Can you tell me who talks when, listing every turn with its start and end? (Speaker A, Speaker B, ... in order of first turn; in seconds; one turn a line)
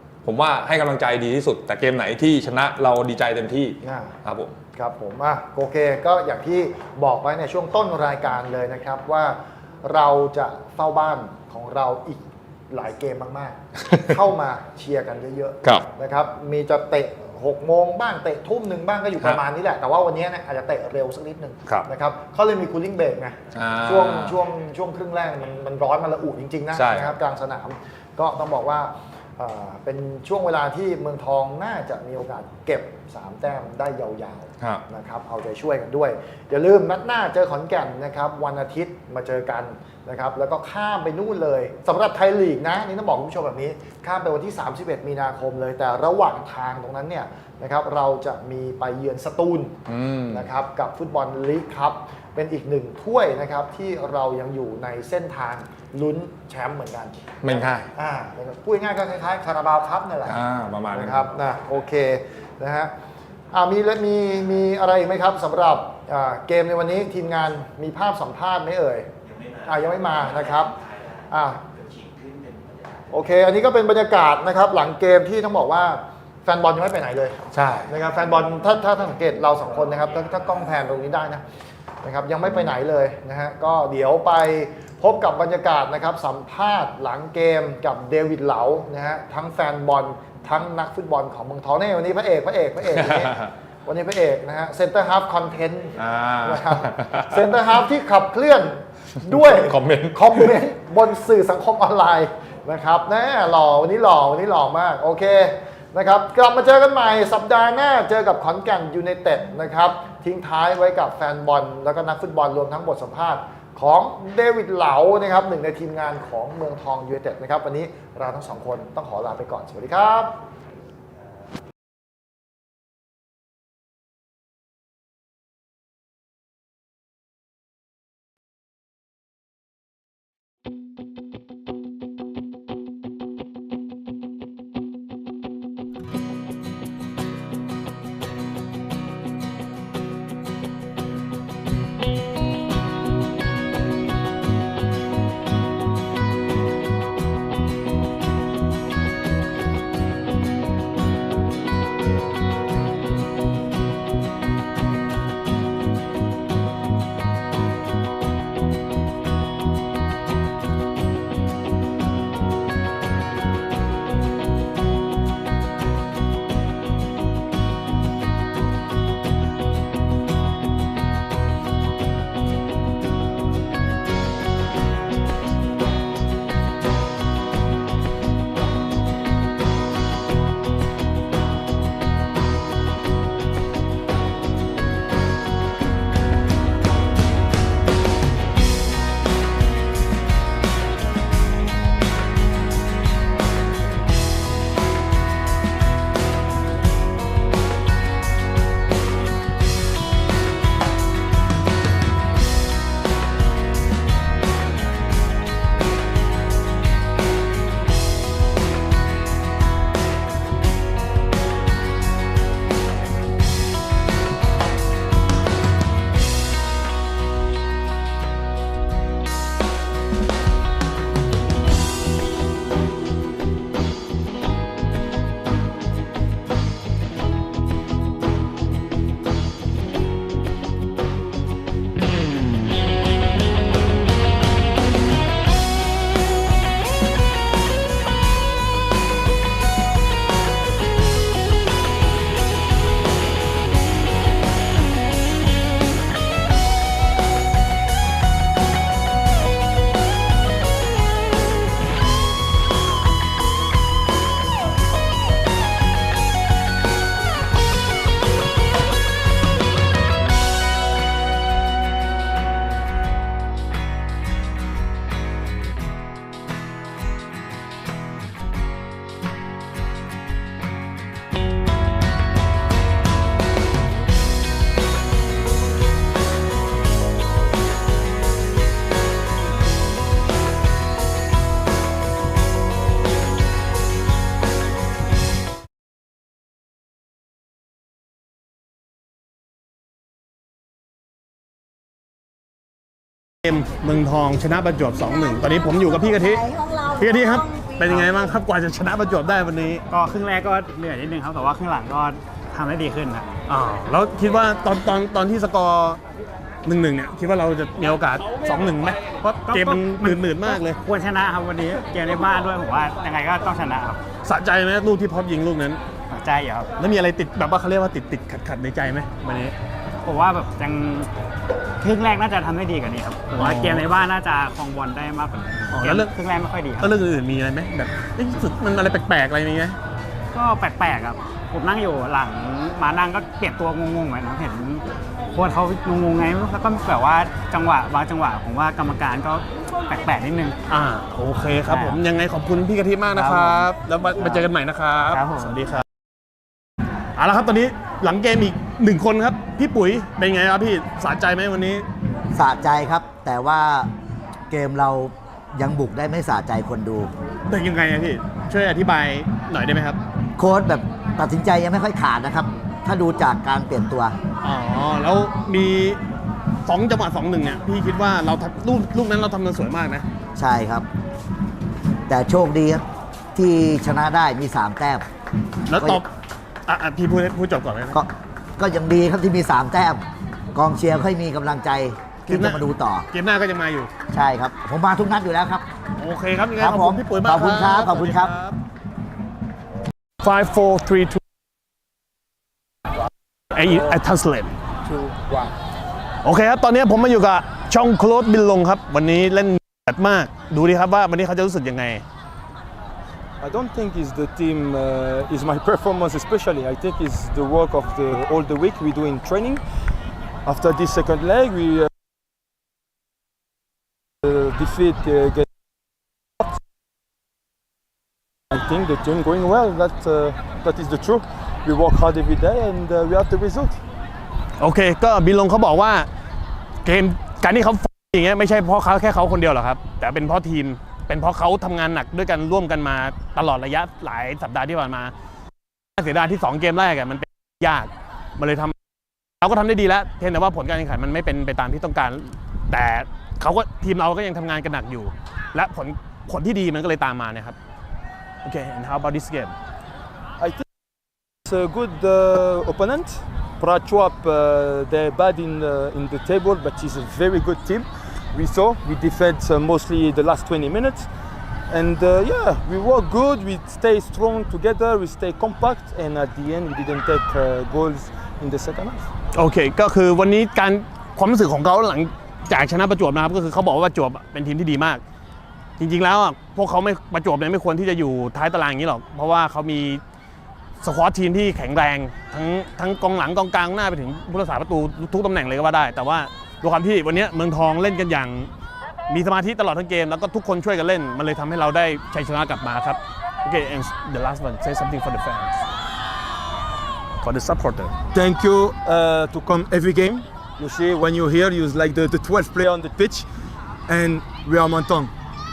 Speaker A: 0.2-4.5
Speaker B: 3.8-4.2
Speaker B: 4.7-49.8
Speaker A: 23.5-24.4
Speaker A: 26.7-27.1
Speaker A: 49.9-50.5
Speaker B: 50.3-60.4
Speaker A: 57.4-57.9
Speaker A: 60.2-61.3
Speaker B: 60.9-62.9
Speaker B: 63.5-70.8
Speaker B: 71.3-71.6
Speaker B: 73.1-81.4
Speaker A: 77.5-77.9
Speaker B: 82.0-120.3
Speaker A: 92.8-93.5
Speaker A: 96.0-97.5
Speaker A: 99.2-100.6
Speaker C: 293.4-299.8
Speaker D: 299.9-303.4
Speaker C: 303.5-306.0
Speaker C: 306.6-310.8
Speaker D: 309.4-314.0
Speaker C: 314.2-315.8
Speaker D: 316.1-316.7
Speaker C: 316.8-319.5
Speaker D: 320.0-321.1
Speaker D: 321.8-326.9
Speaker C: 323.4-323.8
Speaker C: 325.7-326.1
Speaker C: 326.8-329.8
Speaker D: 330.3-340.6
Speaker C: 340.7-345.8
Speaker D: 341.6-342.0
Speaker D: 343.1-343.7
Speaker D: 345.1-345.6
Speaker C: 347.1-351.9
Speaker E: 352.3-353.9
Speaker E: 354.5-357.1
Speaker C: 357.5-360.0
Speaker E: 360.4-364.1
Speaker C: 364.4-366.0
Speaker C: 366.6-370.1
Speaker E: 370.4-370.9
Speaker E: 372.1-372.8
Speaker E: 373.3-375.0
Speaker C: 375.7-376.1
Speaker C: 376.7-378.0
Speaker E: 377.9-383.1
Speaker C: 382.3-383.9
Speaker E: 384.1-385.6
Speaker C: 386.0-388.6
Speaker E: 386.6-388.3
Speaker C: 390.2-391.2
Speaker C: 393.5-394.5
Speaker F: 394.8-395.5
Speaker C: 396.2-402.0
Speaker F: 403.4-409.6
Speaker F: 410.4-411.9
Speaker F: 414.2-415.5
Speaker F: 418.5-423.8
Speaker C: 424.6-426.1
Speaker C: 426.8-435.1
Speaker C: 436.0-438.8
Speaker C: 439.4-447.6
Speaker C: 448.4-449.5
Speaker F: 450.4-450.6
Speaker F: 451.4-461.1
Speaker F: 461.7-469.1
Speaker C: 469.3-475.0
Speaker C: 475.8-480.0
Speaker C: 480.8-488.5
Speaker C: 489.1-495.6
Speaker C: 497.2-497.9
Speaker F: 498.1-503.3
Speaker F: 503.9-505.1